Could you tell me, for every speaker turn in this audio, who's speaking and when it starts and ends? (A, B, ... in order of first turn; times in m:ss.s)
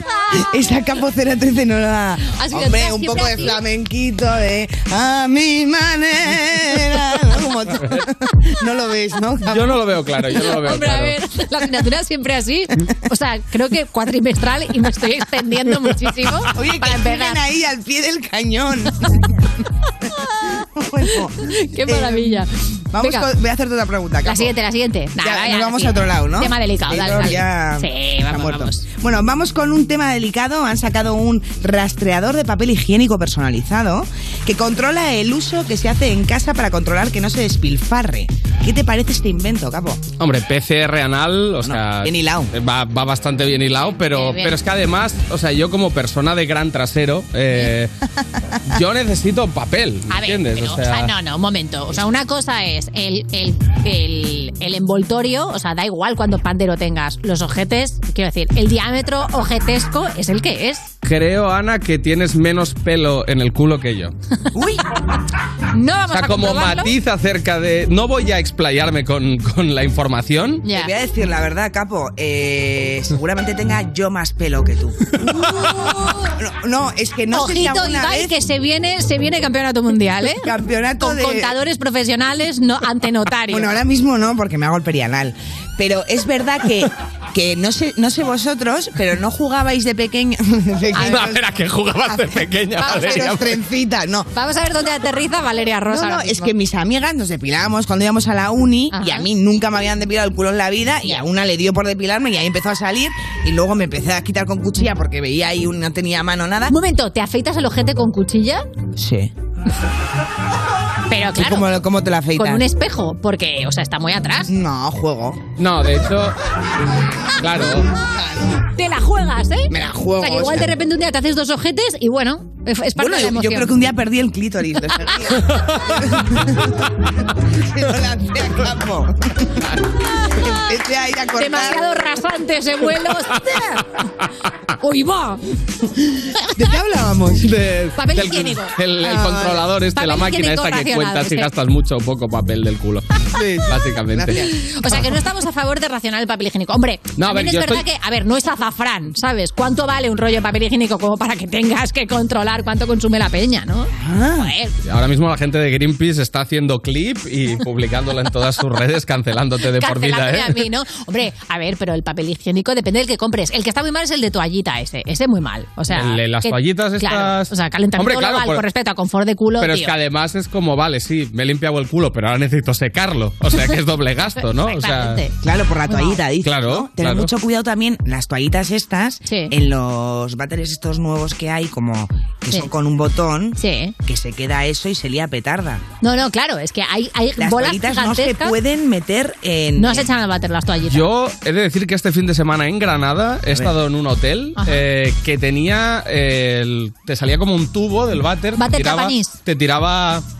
0:00.3-0:09.7 A
0:02.3-0:03.6 B
0:09.5-0:11.2 C
0:10.4-0:17.4 B
0:16.4-0:19.4 A
0:20.6-0:24.5 A
0:21.4-0:23.3 B
0:24.2-0:28.8 B
0:25.2-0:40.0 A
0:40.2-0:47.9 C
0:41.6-0:42.5 A
0:44.1-0:44.6 B
0:48.7-0:51.1 C
0:50.1-1:00.9 B
1:01.0-1:04.1 C
1:04.6-1:04.8 A
1:05.7-1:06.9 B
1:06.1-1:10.6 C
1:10.6-1:10.9 B
1:10.7-1:18.3 A
1:15.5-1:16.2 B
1:17.3-1:20.5 B
1:20.3-1:21.5 A
1:21.0-1:23.7 B
1:23.5-1:31.6 A
1:30.9-1:31.3 B
1:31.0-1:33.5 C
1:32.1-1:34.3 A
1:32.8-1:33.4 B
1:34.3-1:36.5 B
1:35.9-1:46.7 A
1:38.9-1:39.3 B
1:46.7-1:48.7 B
1:49.0-1:49.3 A
1:51.1-1:51.8 B
1:51.3-1:52.6 A
1:52.3-1:54.5 B
1:54.5-1:55.4 A
1:55.6-1:56.4 C
1:57.4-1:57.9 C
1:58.0-1:58.6 A
1:58.7-2:03.7 B
1:59.7-2:00.7 A
2:03.0-2:09.7 A
2:10.2-2:10.6 B
2:10.3-2:11.9 A
2:11.4-2:13.8 B
2:14.8-2:15.4 B
2:16.4-2:17.5 A
2:17.4-2:23.0 C
2:18.0-2:18.8 B
2:19.1-2:19.6 A
2:19.9-2:21.5 B
2:23.3-2:24.9 A
2:23.6-2:24.4 C
2:24.5-2:34.7 B
2:27.2-2:27.8 C
2:33.9-2:34.5 A
2:34.8-2:40.6 C
2:39.7-2:49.9 B
2:45.9-2:48.6 C
2:49.6-2:55.2 C
2:54.3-2:55.3 B
2:55.4-3:05.8 A
2:55.9-2:56.2 B
2:56.4-2:57.3 C
2:59.3-2:59.5 B
3:03.6-3:03.9 B
3:06.0-3:08.5 B
3:07.4-3:10.1 A
3:09.8-3:11.1 B
3:10.8-3:20.2 C
3:14.6-3:14.8 B
3:18.6-3:19.4 B